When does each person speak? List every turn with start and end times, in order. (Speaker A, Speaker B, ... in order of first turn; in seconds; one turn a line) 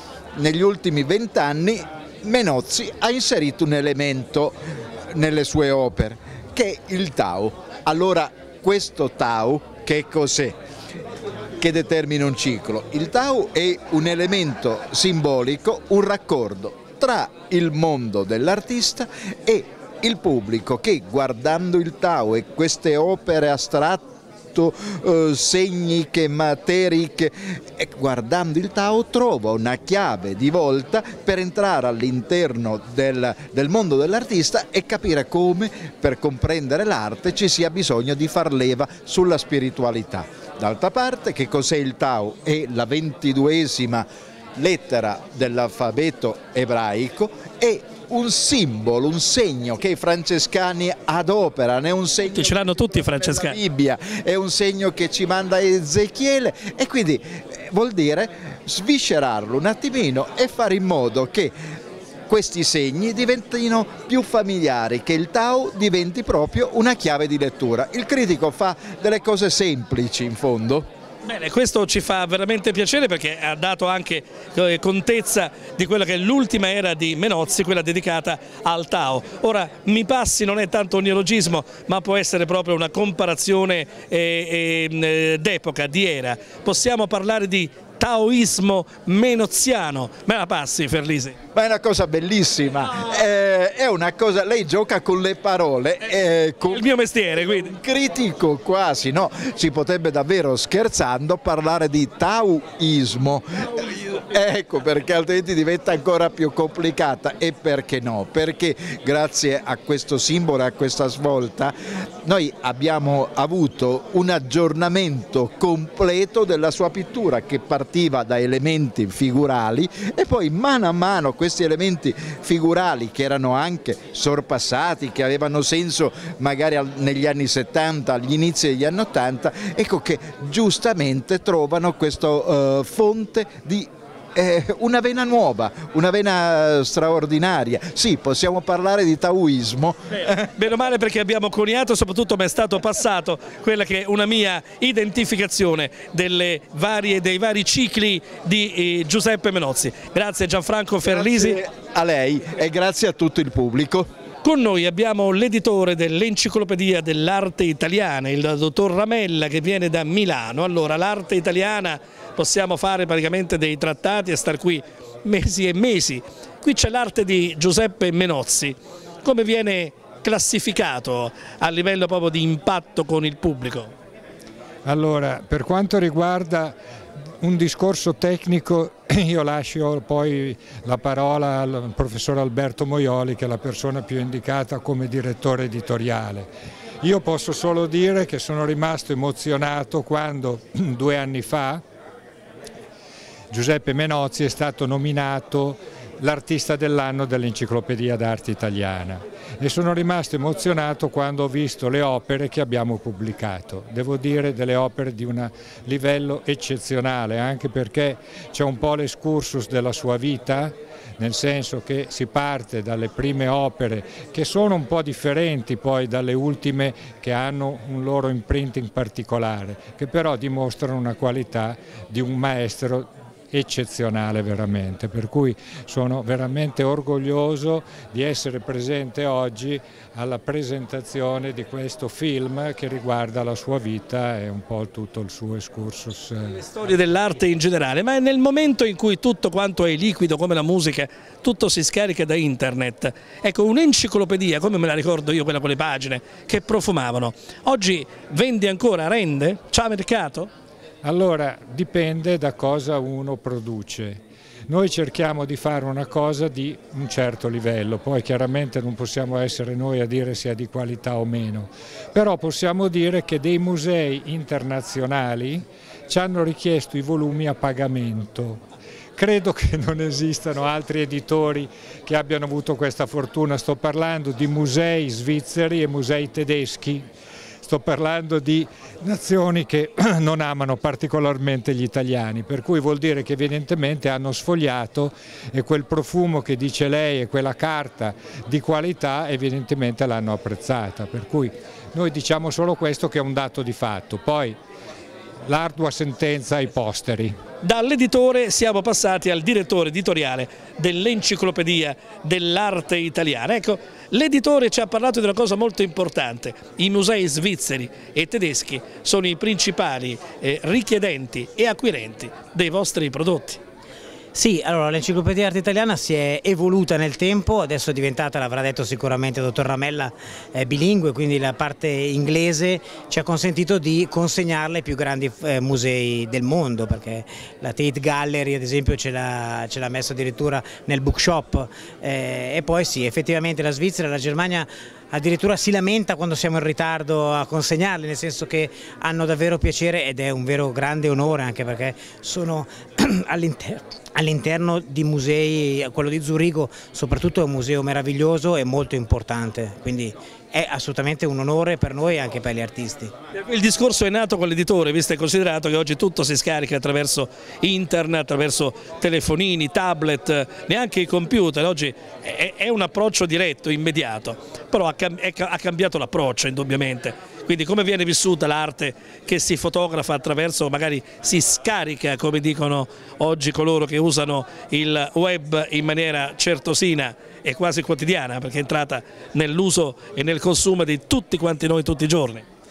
Speaker A: 0.3-4.6
Speaker A: 5.1-10.6
Speaker A: 11.6-61.5
Speaker B: 52.2-53.6
Speaker A: 62.3-70.9
Speaker B: 71.2-91.3
Speaker A: 91.5-96.9
Speaker B: 96.7-97.7
Speaker A: 97.5-140.4
Speaker B: 140.1-151.6
Speaker A: 151.0-154.1
Speaker B: 154.4-173.9
Speaker C: 174.8-176.8
Speaker C: 177.4-186.5
Speaker C: 187.0-191.8
Speaker C: 193.5-236.6
Speaker B: 236.5-250.5
Speaker C: 251.0-268.6
Speaker C: 269.1-277.1
Speaker C: 277.6-294.6
Speaker C: 295.5-297.4
Speaker B: 297.6-313.6
Speaker D: 314.3-353.1
Speaker B: 353.3-382.4